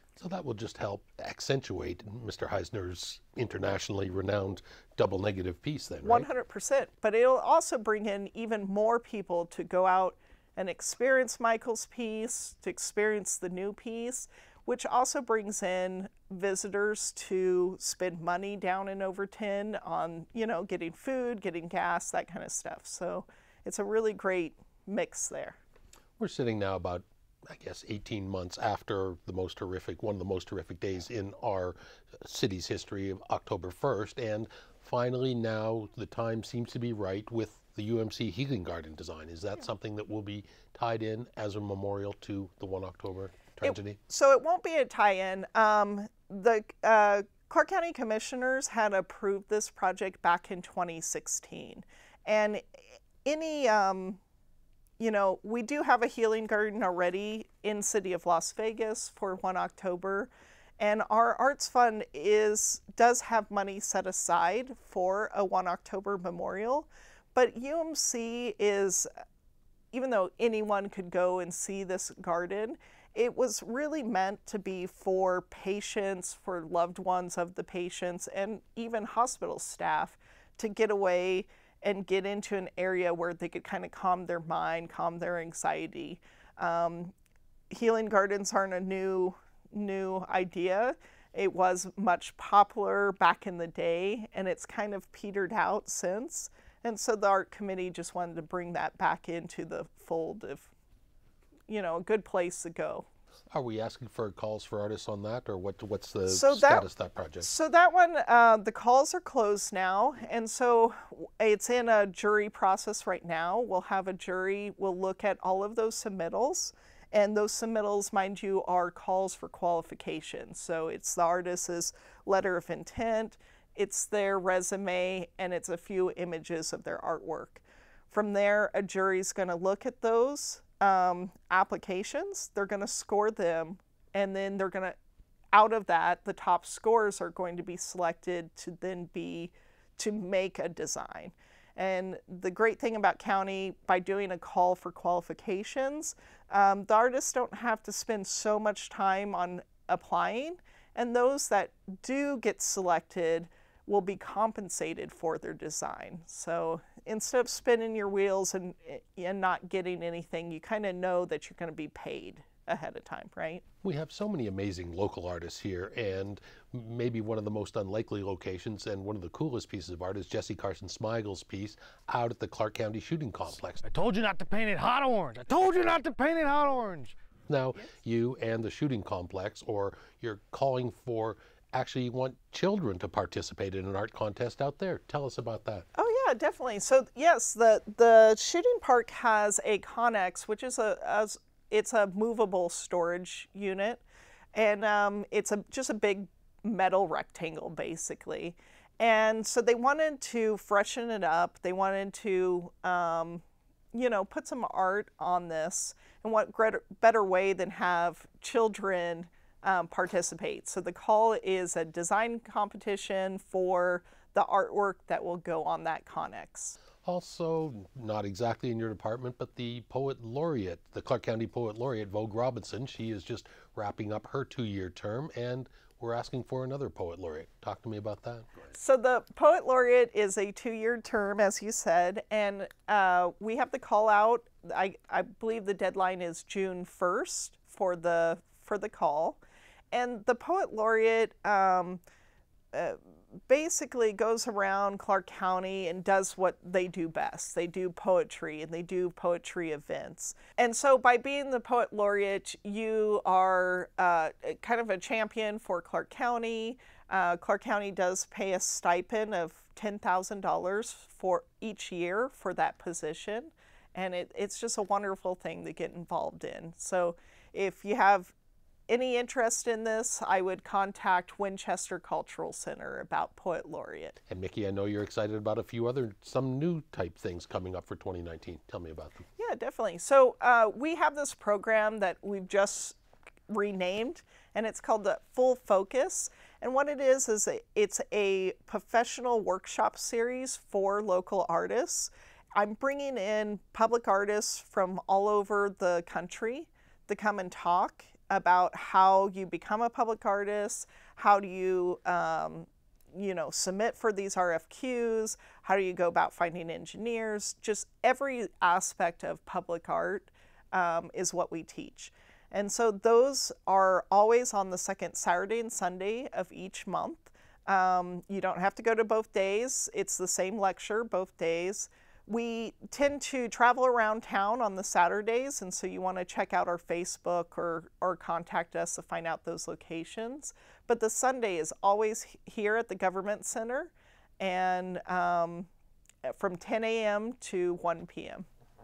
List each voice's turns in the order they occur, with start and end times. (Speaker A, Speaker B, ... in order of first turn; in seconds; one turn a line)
Speaker A: 0.2-6.3
Speaker B: 6.0-25.6
Speaker A: 26.2-44.0
Speaker B: 43.6-54.2
Speaker B: 55.0-69.1
Speaker B: 69.9-87.1
Speaker B: 87.7-100.7
Speaker B: 101.7-103.1
Speaker A: 103.5-107.5
Speaker B: 106.3-106.9
Speaker B: 107.4-135.0
Speaker B: 135.5-163.6
Speaker A: 163.8-173.9
Speaker C: 173.8-177.2
Speaker A: 177.5-185.9
Speaker B: 185.9-194.0
Speaker B: 194.5-216.8
Speaker A: 217.0-228.7
Speaker B: 228.7-239.4
Speaker B: 239.9-242.0
Speaker B: 242.7-268.3
Speaker B: 268.9-274.2
Speaker A: 274.3-279.3
Speaker B: 279.4-283.0
Speaker B: 283.5-335.7
Speaker B: 336.2-338.5